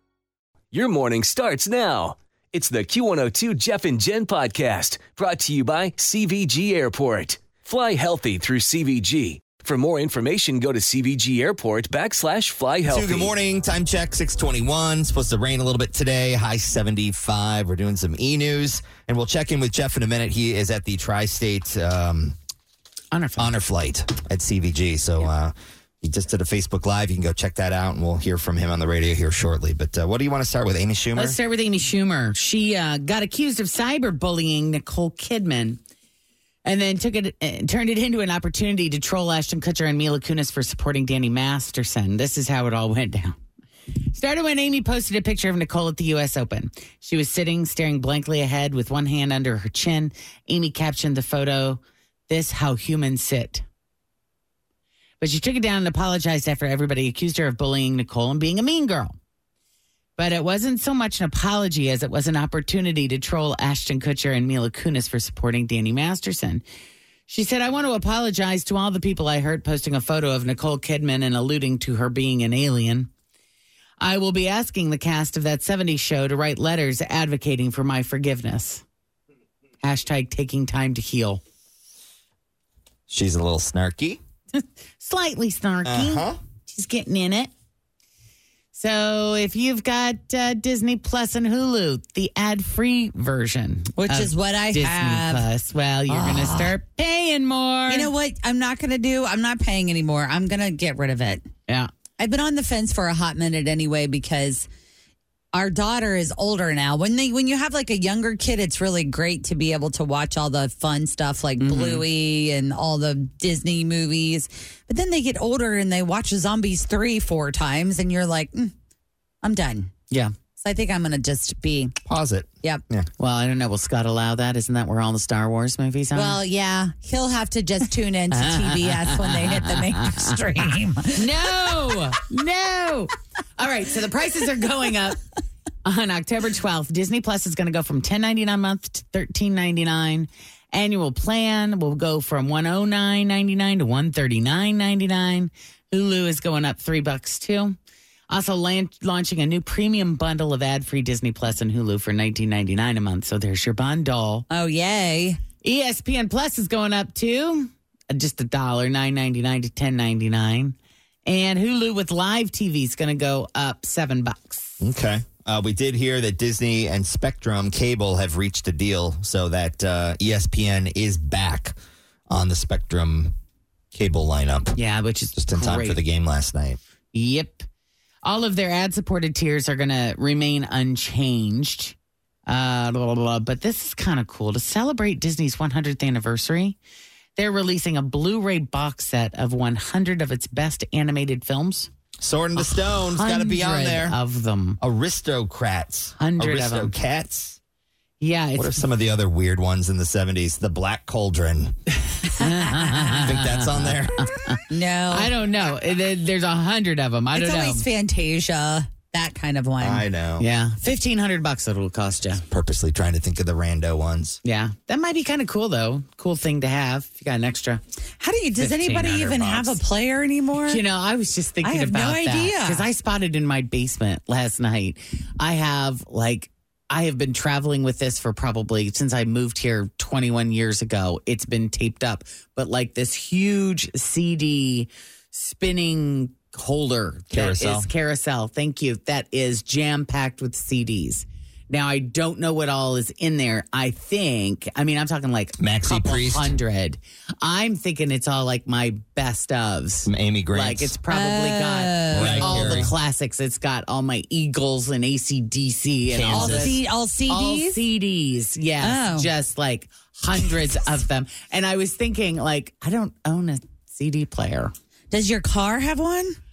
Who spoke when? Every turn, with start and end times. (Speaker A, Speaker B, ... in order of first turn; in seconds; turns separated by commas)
Speaker A: 0.7-13.3, Speaker B: 12.9-22.4, Speaker C: 23.1-23.5, Speaker B: 23.4-31.4, Speaker C: 31.2-35.8, Speaker C: 36.6-43.4, Speaker C: 44.1-53.6, Speaker C: 55.2-59.2, Speaker C: 60.2-66.6, Speaker C: 67.3-73.1, Speaker C: 74.0-78.8, Speaker C: 79.8-81.4, Speaker B: 83.1-84.2, Speaker C: 84.5-87.5, Speaker B: 85.8-86.4, Speaker C: 88.7-98.1, Speaker D: 94.0-95.5, Speaker D: 96.1-96.7, Speaker D: 97.9-101.5, Speaker D: 102.2-104.7, Speaker D: 105.5-118.7, Speaker C: 111.6-112.0, Speaker D: 119.4-119.9, Speaker D: 120.6-122.0, Speaker B: 122.0-123.1, Speaker C: 123.2-126.4, Speaker D: 126.2-131.7, Speaker C: 128.3-130.2, Speaker C: 131.2-135.2, Speaker C: 135.8-147.8, Speaker C: 148.3-154.5, Speaker D: 154.5-155.4, Speaker C: 155.6-164.8, Speaker B: 164.8-171.8, Speaker B: 172.3-173.4, Speaker B: 173.9-174.8, Speaker C: 174.8-176.0, Speaker B: 175.3-176.8, Speaker C: 177.1-177.7, Speaker C: 178.2-181.9, Speaker C: 182.5-186.8, Speaker C: 187.4-191.9, Speaker B: 192.2-194.2, Speaker C: 192.6-194.8, Speaker B: 194.8-197.6, Speaker C: 196.2-196.9, Speaker C: 198.2-198.8, Speaker B: 198.6-201.8, Speaker C: 202.2-207.9, Speaker B: 203.2-204.2, Speaker D: 204.7-205.3, Speaker D: 207.3-210.1, Speaker B: 209.8-210.5, Speaker C: 210.4-212.4, Speaker B: 212.5-214.4, Speaker C: 214.4-217.8, Speaker D: 218.2-220.8, Speaker C: 218.6-219.8, Speaker C: 220.7-264.7, Speaker D: 221.6-222.9, Speaker B: 237.3-237.9, Speaker B: 245.6-246.6, Speaker B: 250.1-251.0, Speaker D: 251.1-252.9, Speaker B: 252.1-252.9, Speaker B: 256.1-256.7, Speaker D: 256.3-257.8, Speaker D: 258.8-259.3, Speaker D: 265.1-266.4